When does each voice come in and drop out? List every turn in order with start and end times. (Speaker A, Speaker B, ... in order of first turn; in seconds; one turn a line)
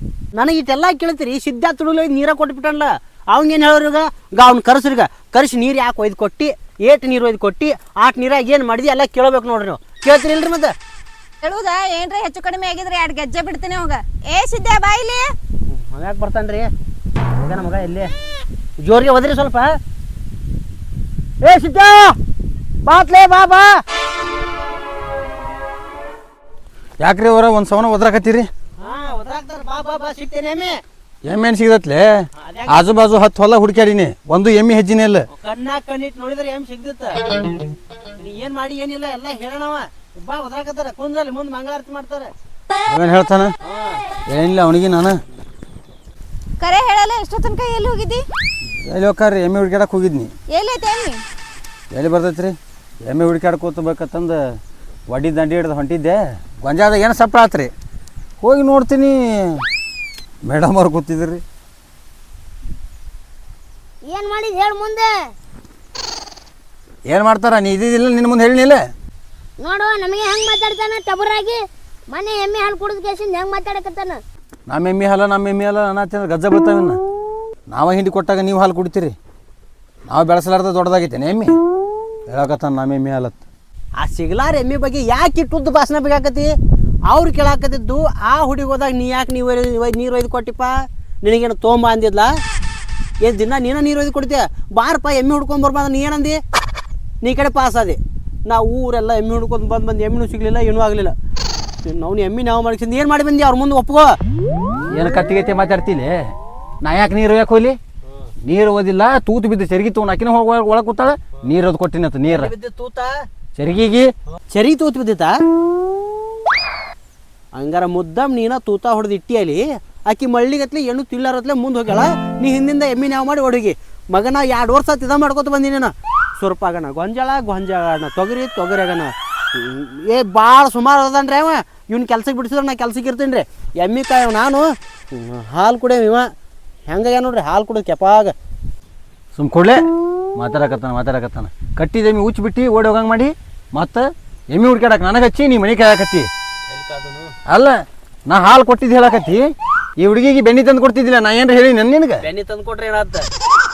Speaker A: 0.3-10.7
Speaker B: 11.4-15.3
Speaker A: 15.7-16.7
Speaker A: 17.4-18.1
Speaker A: 18.8-19.7
Speaker A: 21.4-22.1
Speaker A: 22.8-23.7
Speaker C: 27.0-28.5
Speaker A: 28.8-30.8
Speaker C: 31.2-35.2
Speaker A: 32.4-32.8
Speaker A: 35.3-37.2
Speaker A: 38.2-42.3
Speaker C: 42.9-43.5
Speaker A: 43.6-44.0
Speaker C: 44.3-45.2
Speaker B: 46.6-48.2
Speaker C: 48.8-50.3
Speaker B: 50.5-51.2
Speaker C: 51.9-54.4
Speaker C: 55.1-57.7
Speaker C: 58.4-59.6
Speaker C: 60.5-61.4
Speaker D: 64.1-65.1
Speaker C: 67.1-68.8
Speaker D: 69.6-71.6
Speaker D: 72.1-74.2
Speaker C: 74.7-77.0
Speaker C: 77.7-79.2
Speaker C: 80.1-81.5
Speaker C: 82.3-83.4
Speaker A: 84.0-86.5
Speaker A: 87.1-92.3
Speaker A: 93.2-96.4
Speaker A: 97.2-101.2
Speaker A: 101.9-104.2
Speaker C: 104.9-106.2
Speaker C: 106.8-107.8
Speaker C: 108.4-112.5
Speaker A: 112.3-113.1
Speaker C: 113.6-114.1
Speaker A: 114.5-115.3
Speaker A: 117.5-136.3
Speaker A: 136.9-138.3
Speaker C: 139.4-139.8
Speaker C: 140.4-146.3
Speaker A: 146.7-147.3
Speaker C: 147.5-147.8
Speaker C: 148.3-149.4
Speaker C: 150.0-152.2
Speaker A: 152.2-153.3